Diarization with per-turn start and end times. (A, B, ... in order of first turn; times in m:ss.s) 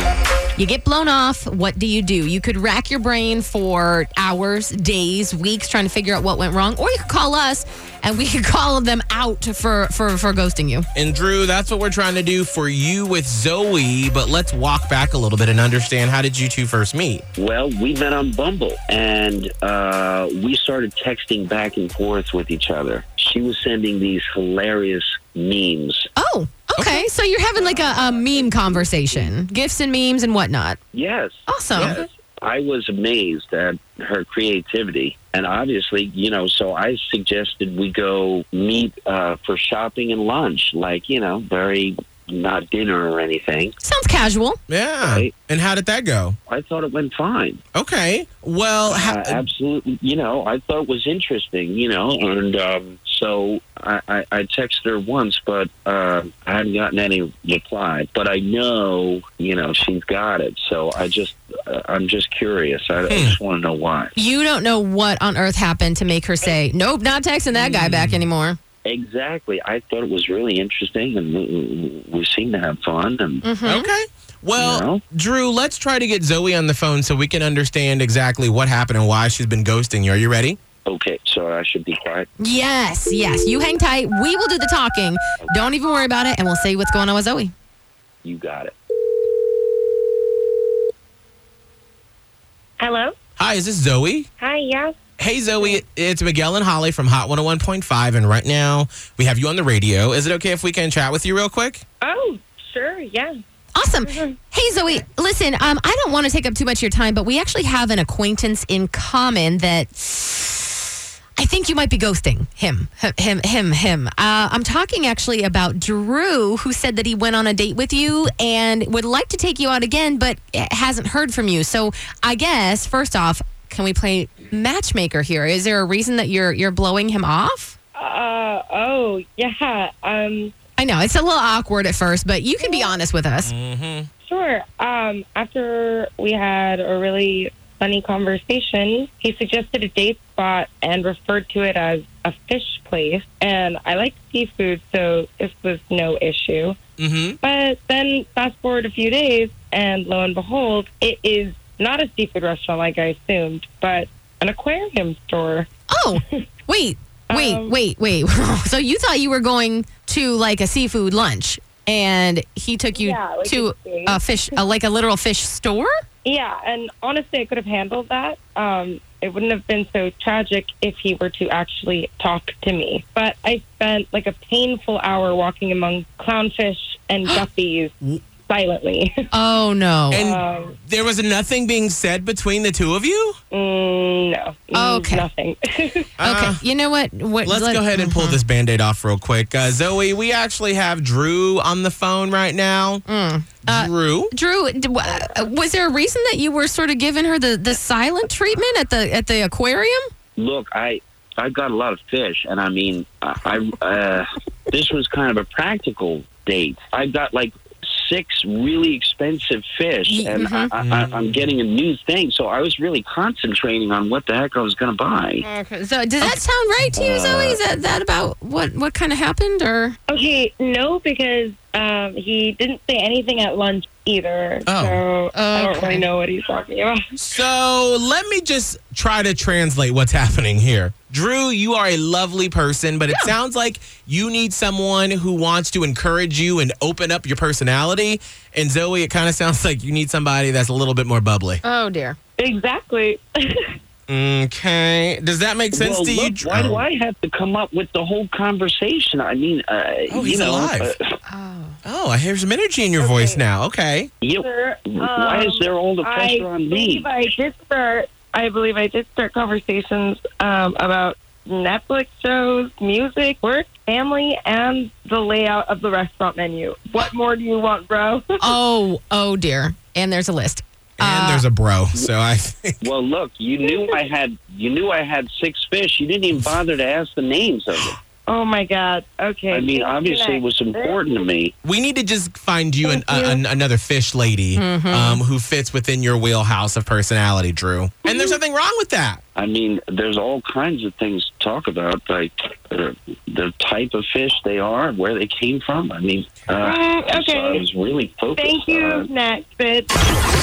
0:00.6-0:10.9 A
0:10.9-0:17.2 B
0:17.4-0:26.1 C
0:26.2-0:30.8 A
0:26.8-0:27.1 B
0:27.6-0:29.3 C
0:30.9-0:43.8 C
0:31.5-0:32.0 A
0:31.8-0:32.1 B
0:43.8-0:44.6 A
0:44.7-0:46.4 B
0:45.0-0:45.3 C
0:46.5-0:47.6 C
0:47.7-0:49.5 B
0:48.9-1:04.2 C
1:03.1-1:03.4 B
1:04.2-1:08.6 A
1:07.5-1:08.3 B
1:08.8-1:13.4 C
1:13.4-1:13.9 A
1:13.6-1:20.6 B
1:14.6-1:15.0 C
1:20.9-1:22.3 C
1:22.4-1:27.5 A
1:28.2-1:28.7 C
1:32.8-1:33.1 D
1:33.4-1:34.3 B
1:34.4-1:35.0 D
1:35.2-1:41.8 B
1:42.0-1:43.4 D
1:43.8-1:50.7 A
1:44.0-1:44.4 D
1:51.4-2:07.8 A
2:08.0-2:10.5 D
2:10.8-2:13.5 A
2:12.6-2:13.0 D
2:13.4-2:14.1 B
2:14.2-2:26.8 D
2:27.0-2:27.4 B
2:27.4-2:35.7 D
2:35.9-2:45.9 A
2:37.3-2:37.8 D
2:43.0-2:44.2 D
2:46.2-2:57.9 D
2:58.4-2:59.1 D
2:59.3-3:00.2 A
3:00.1-3:03.4 B
3:00.1-3:00.8 D
3:03.5-3:06.1 D
3:04.7-3:05.3 A
3:06.2-3:06.6 B
3:06.2-3:08.4 A
3:07.4-3:13.0 B
3:13.1-3:20.0 A
3:13.6-3:14.3 B
3:20.4-3:35.4 C
3:30.1-3:30.7 A
3:30.8-3:31.6 B
3:35.4-3:40.0 A
3:37.0-3:37.6 C
3:40.1-3:47.0 D
3:44.7-3:45.0 B
3:45.3-3:46.1 A
3:47.2-4:01.6 B
3:53.1-3:53.3 A
4:01.6-4:02.2 A
4:02.4-4:03.7 D
4:04.1-4:06.8 B
4:05.7-4:11.1 C
4:10.1-4:10.9 B
4:11.3-4:11.8 A
4:11.8-4:14.1 B
4:13.0-4:13.4 D
4:14.2-4:17.1 C
4:14.4-4:28.5 D
4:28.4-4:31.4 A
4:31.0-4:32.8 B
4:32.8-4:38.0 C
4:33.6-4:34.0 D
4:38.3-4:41.2 D
4:39.5-4:41.5 C
4:41.6-4:49.2 B
4:42.8-4:43.4 D
4:44.6-4:45.2 A
4:48.1-4:48.4 D
4:49.4-4:59.1 C
4:56.6-4:57.7 D
4:58.4-4:59.9 D